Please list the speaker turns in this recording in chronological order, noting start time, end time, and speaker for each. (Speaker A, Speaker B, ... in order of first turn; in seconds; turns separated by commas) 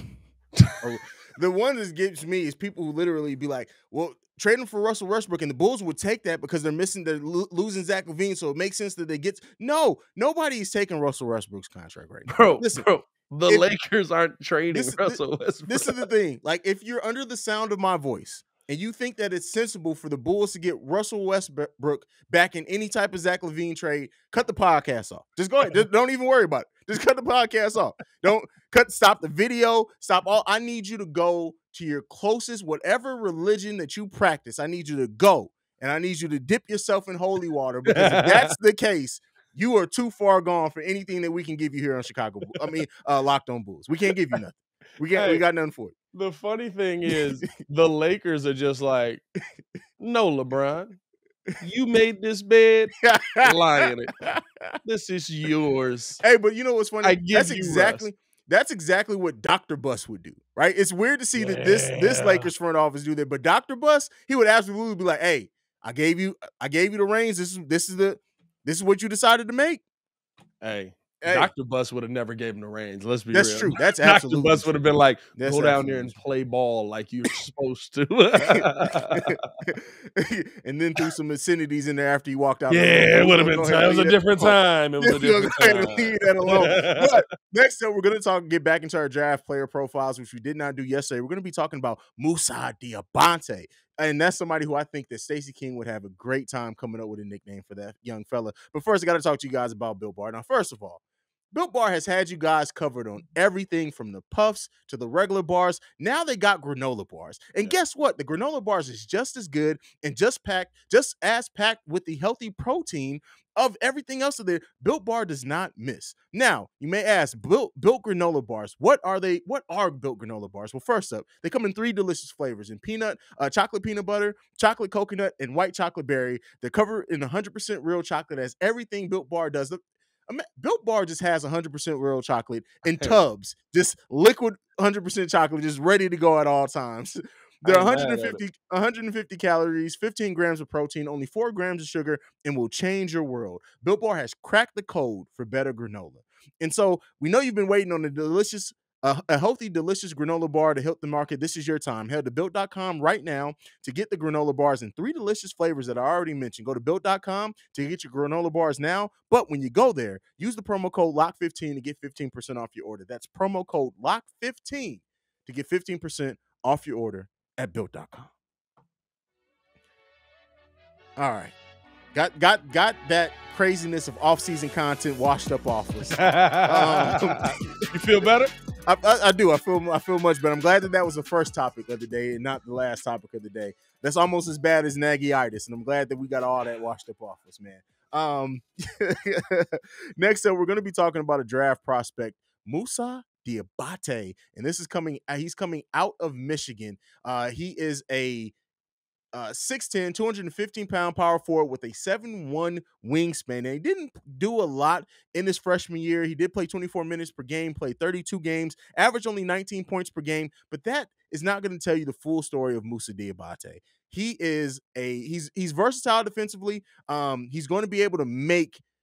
Speaker A: 0.8-12.9, Speaker B: 12.3-16.0, Speaker A: 14.7-45.9, Speaker B: 37.9-38.5, Speaker B: 45.1-45.4, Speaker B: 46.1-49.2, Speaker B: 50.0-51.0, Speaker B: 51.6-54.1, Speaker A: 53.0-54.8, Speaker B: 54.8-56.2, Speaker A: 56.2-69.8, Speaker B: 57.0-58.0, Speaker B: 61.4-62.5, Speaker B: 70.6-79.4, Speaker A: 71.2-71.5, Speaker A: 73.3-74.7, Speaker A: 75.3-76.1, Speaker A: 78.4-101.0, Speaker B: 82.7-87.2, Speaker A: 101.5-168.3, Speaker B: 137.6-138.4, Speaker A: 171.2-171.5, Speaker A: 172.1-177.8, Speaker B: 176.1-178.5, Speaker A: 178.8-198.5, Speaker A: 199.3-218.8